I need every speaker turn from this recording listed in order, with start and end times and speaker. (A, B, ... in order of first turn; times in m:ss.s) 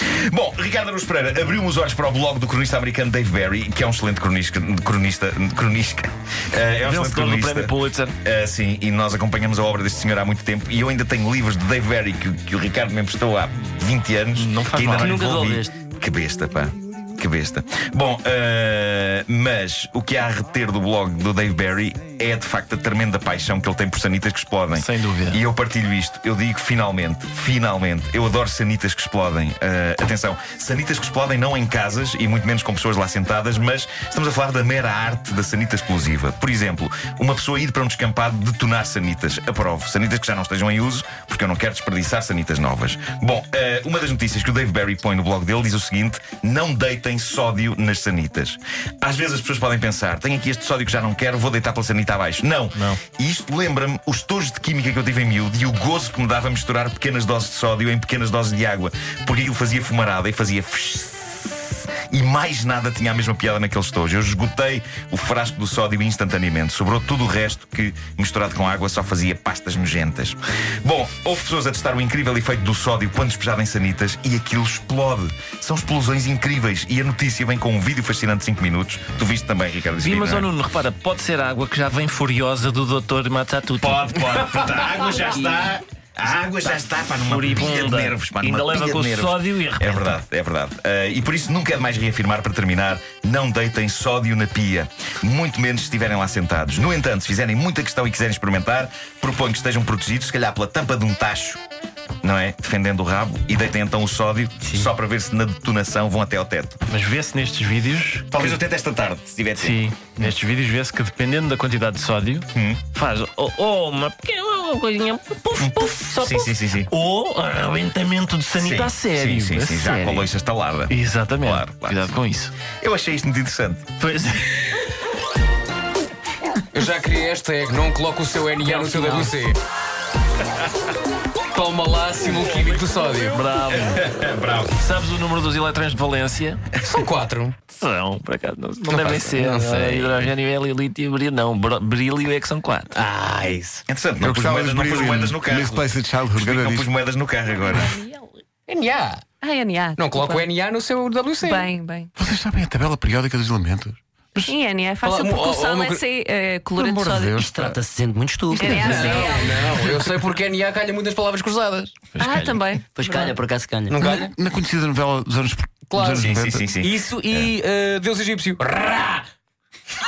0:00.3-1:20.5 A
0:06.8-0:08.2 B
0:14.4-0:15.2 B
0:15.0-0:15.8 C
0:24.7-0:25.4 B
0:52.8-0:53.0 B
1:20.0-1:25.7 B
1:23.8-1:41.6 A
1:26.6-1:30.2 B
1:42.2-1:46.8 A
1:44.6-1:44.9 B
1:46.9-1:48.6 B
1:48.3-1:50.4 A
1:49.6-2:00.3 B
1:52.5-1:52.8 A
1:55.6-1:56.9 A
1:58.6-2:02.2 A
2:00.9-2:02.5 B
2:02.8-2:03.9 A
2:04.0-2:04.7 B
2:06.7-2:09.6 D
2:08.6-2:09.3 B
2:11.5-2:13.4 D
2:12.7-2:14.1 B
2:13.6-2:14.8 A
2:14.8-2:16.7 B
2:16.8-2:17.6 D
2:17.7-2:23.0 B
2:18.8-2:20.3 D
2:22.9-2:23.8 D
2:23.9-2:28.0 A
2:24.2-2:26.9 E
2:28.7-2:29.3 D
2:29.4-2:30.4 F
2:30.0-2:31.8 D
2:31.5-2:32.1 F
2:32.2-2:34.6 E
2:34.5-2:37.4 F
2:35.0-2:36.1 D
2:36.8-2:37.8 E
2:37.4-2:39.3 C
2:38.6-2:42.1 D
2:38.6-2:39.7 F
2:42.2-2:42.7 A
2:42.2-2:43.4 F
2:43.0-2:44.0 C
2:43.9-2:44.3 D
2:44.0-2:46.7 E
2:45.9-2:49.2 D
2:46.0-2:47.5 A